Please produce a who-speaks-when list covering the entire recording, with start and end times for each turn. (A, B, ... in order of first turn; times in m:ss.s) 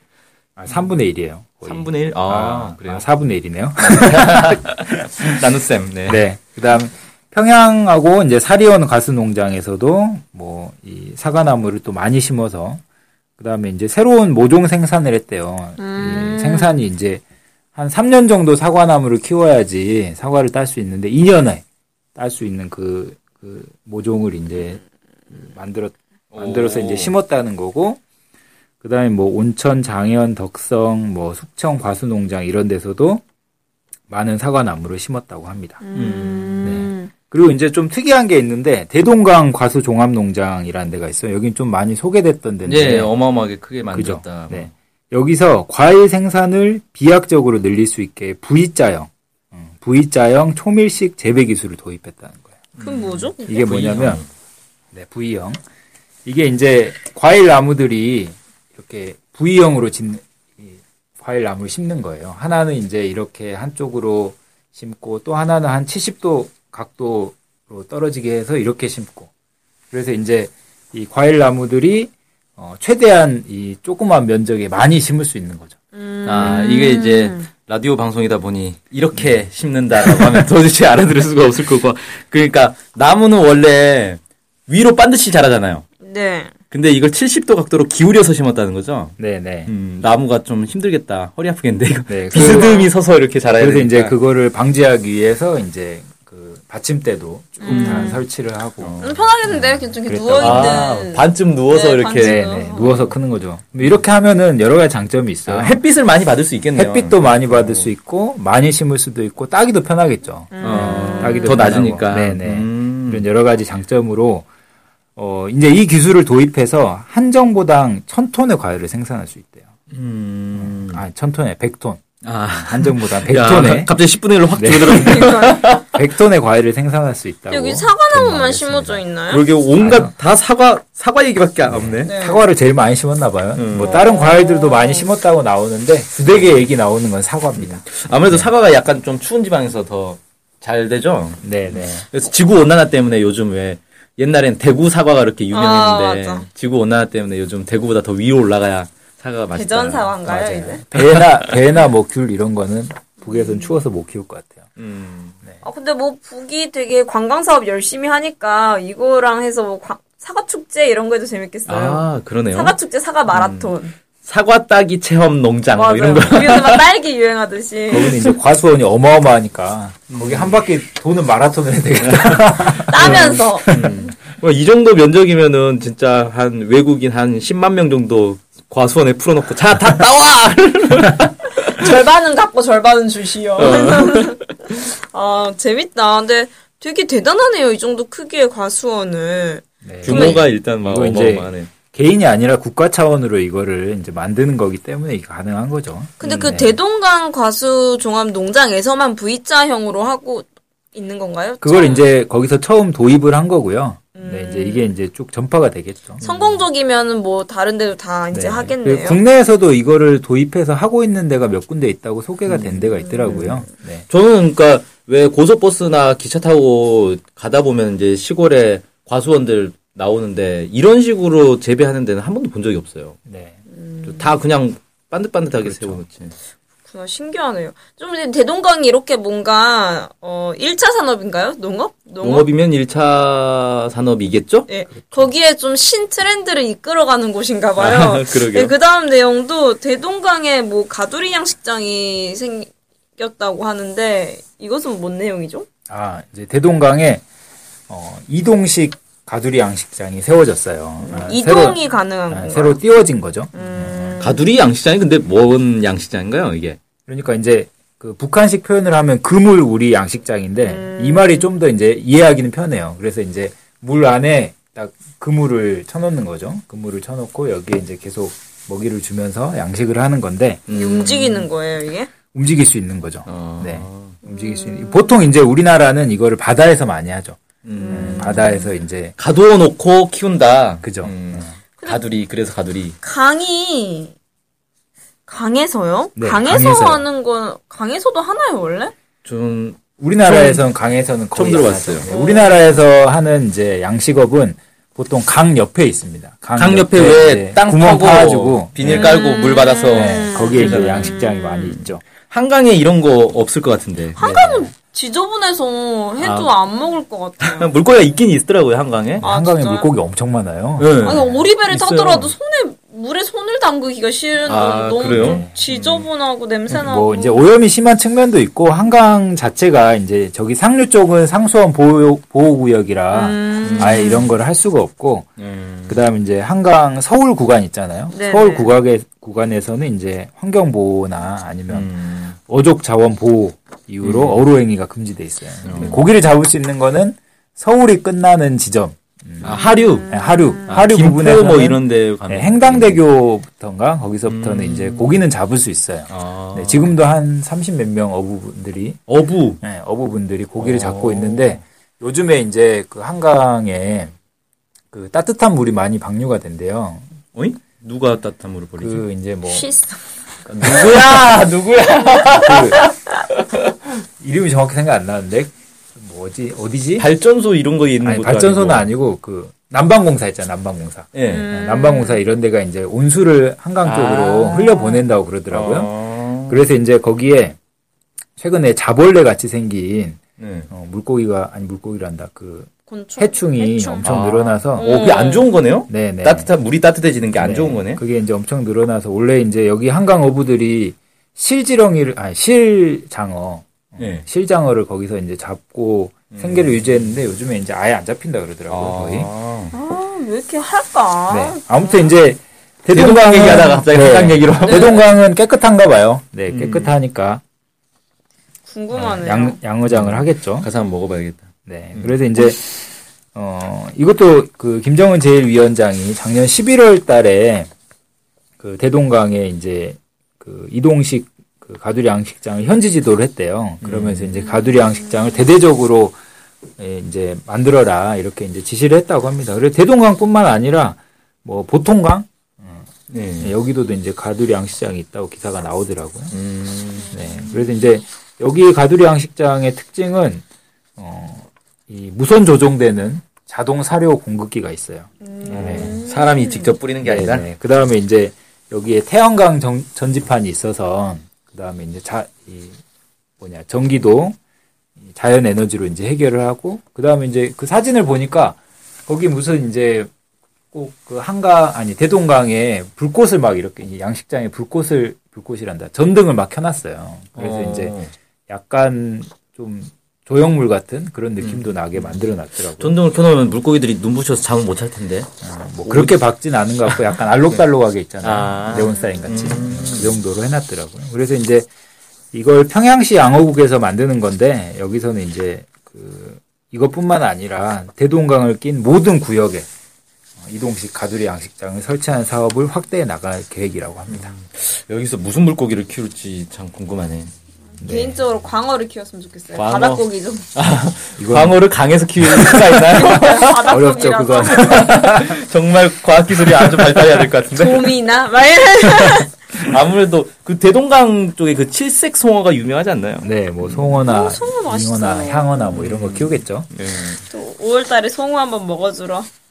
0:00.6-0:05.3 A
0:01.6-0:03.0 B
0:03.8-0:06.2 B
0:06.0-0:12.8 A
0:13.4-0:17.2 A
0:15.8-0:16.8 C
0:17.7-0:21.6 A
0:22.2-0:28.0 A
0:26.3-0:27.2 B
0:28.8-0:33.2 A
0:34.1-0:35.9 A
0:35.8-0:37.1 C
0:35.9-0:36.7 B
0:36.6-0:43.1 A
0:42.6-0:44.7 B
0:43.9-0:52.6 A
0:52.8-0:54.3 B
0:52.8-0:53.6 C
0:53.5-0:54.2 A
0:54.9-0:55.6 A
0:56.2-1:09.3 A
1:09.9-1:15.8 A
1:15.9-1:17.4 C
1:16.2-1:25.8 B
1:26.0-1:26.5 C
1:26.7-1:34.1 B
1:29.2-1:29.7 A
1:32.1-1:32.8 A
1:32.3-1:32.9 C
1:33.5-1:40.9 A
1:37.6-1:38.2 C
1:37.6-1:38.2 B
1:38.8-1:39.2 B
1:39.0-1:43.1 C
1:40.4-1:43.1 B
1:42.1-1:45.8 A
1:45.5-1:47.9 B
1:46.7-1:54.4 A
1:50.5-1:51.6 C
1:50.6-1:53.3 B
1:55.2-1:59.7 A
1:59.9-2:01.0 B
2:00.5-2:02.0 A
2:02.2-2:05.9 B
2:02.6-2:03.9 A
2:04.5-2:09.0 A
2:04.9-2:05.7 C
2:07.5-2:09.5 C
2:09.3-2:12.1 B
2:09.8-2:10.1 A
2:11.7-2:18.5 A
2:12.0-2:12.5 C
2:13.5-2:14.0 B
2:13.8-2:15.1 C
2:17.5-2:30.2 B
2:21.4-2:22.0 A
2:25.5-2:26.5 C
2:29.5-2:30.8 C
2:30.2-2:34.6 A
2:33.3-2:33.6 C
2:34.8-2:35.4 B
2:35.6-2:43.9 C
2:41.7-2:42.8 B
2:43.3-2:43.7 B
2:44.2-2:46.9 B
2:45.7-2:48.2 C
2:47.9-2:54.0 A
2:50.1-2:50.6 B
2:52.0-3:02.0 B
2:52.9-2:53.7 C
3:01.6-3:10.4 C
3:03.6-3:04.4 B
3:09.8-3:16.8 A
3:10.0-3:11.7 B
3:16.2-3:22.0 C
3:21.6-3:26.2 A
3:24.2-3:24.9 C
3:26.2-3:29.2 C
3:28.3-3:34.0 A
3:32.5-3:33.5 B
3:34.1-3:43.2 B
3:43.2-3:43.6 A
3:43.9-3:44.2 C
3:44.0-3:46.3 B
3:45.6-3:46.0 A
3:46.8-3:52.5 C
3:52.2-3:54.7 B
3:54.7-4:05.7 C
3:54.9-3:55.3 A
3:57.8-3:58.7 B
4:05.9-4:07.2 A
4:07.9-4:14.3 A
4:11.0-4:12.8 C
4:13.5-4:14.4 C
4:14.2-4:16.8 B
4:17.1-4:30.7 A
4:20.6-4:21.5 C
4:30.7-4:31.5 B
4:30.7-4:32.1 C
4:32.3-4:39.2 A
4:33.2-4:34.2 B
4:34.3-4:35.1 C
4:37.6-4:38.6 B
4:37.8-4:38.5 C
4:39.2-4:43.0 B
4:40.8-4:41.5 A
4:43.0-4:44.1 C
4:45.3-4:48.9 C
4:46.2-4:47.0 A
4:49.2-4:50.6 B
4:50.0-4:59.2 A
4:51.3-4:52.1 B
4:52.1-4:52.6 C
4:56.6-5:04.6 B
4:59.3-5:00.0 C
4:59.9-5:02.0 A
5:04.2-5:07.7 C
5:04.2-5:04.6 A
5:06.2-5:06.5 B
5:07.4-5:09.2 B
5:09.2-5:11.4 A
5:09.2-5:09.9 C
5:10.8-5:12.3 B
5:11.0-5:17.4 C
5:14.4-5:16.1 B
5:15.1-5:15.6 A
5:16.7-5:25.3 A
5:23.1-5:24.3 C
5:23.6-5:24.2 B
5:25.4-5:26.0 B
5:25.9-5:31.9 A
5:28.1-5:28.7 C
5:31.7-5:32.4 B
5:32.5-5:49.0 A
5:34.0-5:34.4 B
5:35.6-5:36.0 B
5:39.4-5:40.1 B
5:40.7-5:43.0 B
5:44.2-5:45.3 B
5:46.1-5:47.0 B
5:49.1-5:49.6 B
5:49.6-5:54.1 A
5:50.6-5:51.6 B
5:54.9-5:57.0 A
5:57.3-5:59.0 B
5:58.8-5:59.7 A
5:59.5-6:00.0 C
6:00.4-6:03.0 B
6:02.2-6:02.9 A
6:04.2-6:07.1 A
6:07.0-6:08.9 B
6:08.0-6:15.9 A
6:11.1-6:11.4 B
6:11.3-6:12.2 C
6:13.8-6:14.9 B
6:15.5-6:16.6 B
6:16.4-6:17.6 A
6:18.4-6:25.0 A
6:20.4-6:20.7 B
6:22.9-6:24.1 C
6:24.0-6:28.0 B
6:24.8-6:25.5 C
6:25.9-6:26.5 A
6:27.4-6:39.3 A
6:34.0-6:34.2 B
6:36.3-6:36.8 B
6:38.7-6:39.7 B
6:39.7-6:41.9 C
6:41.3-6:47.4 A
6:42.9-6:45.0 B
6:44.6-6:45.0 C
6:46.5-6:46.9 B
6:48.6-6:49.6 C
6:48.9-6:50.7 A
6:49.8-6:52.1 B
6:51.6-6:57.7 A
6:58.6-7:06.2 A
7:03.8-7:04.3 B
7:06.8-7:12.9 A
7:13.1-7:13.5 B
7:13.4-7:16.4 A
7:16.3-7:17.2 B
7:17.1-7:20.4 A
7:21.0-7:26.0 A
7:25.3-7:26.7 C
7:25.5-7:27.4 B
7:27.0-7:32.8 A
7:33.4-7:34.4 A
7:35.0-7:40.1 A
7:40.7-7:53.0 A
7:47.4-7:48.1 B
7:51.4-7:52.2 B
7:52.8-7:55.3 B
7:55.4-8:01.7 A
7:55.8-7:56.2 B
7:56.8-7:57.6 B
7:58.2-8:00.2 B
8:02.3-8:09.7 A
8:10.4-8:14.3 A
8:14.1-8:17.3 B
8:17.8-8:18.2 A
8:17.8-8:20.5 C
8:19.5-8:23.8 B
8:21.2-8:21.6 A
8:22.2-8:25.0 A
8:22.8-8:25.0 C
8:24.5-8:28.0 B
8:27.5-8:29.4 C
8:29.5-8:33.9 B
8:33.2-8:36.7 A
8:34.0-8:35.6 C
8:35.7-8:37.2 B
8:37.3-8:39.3 C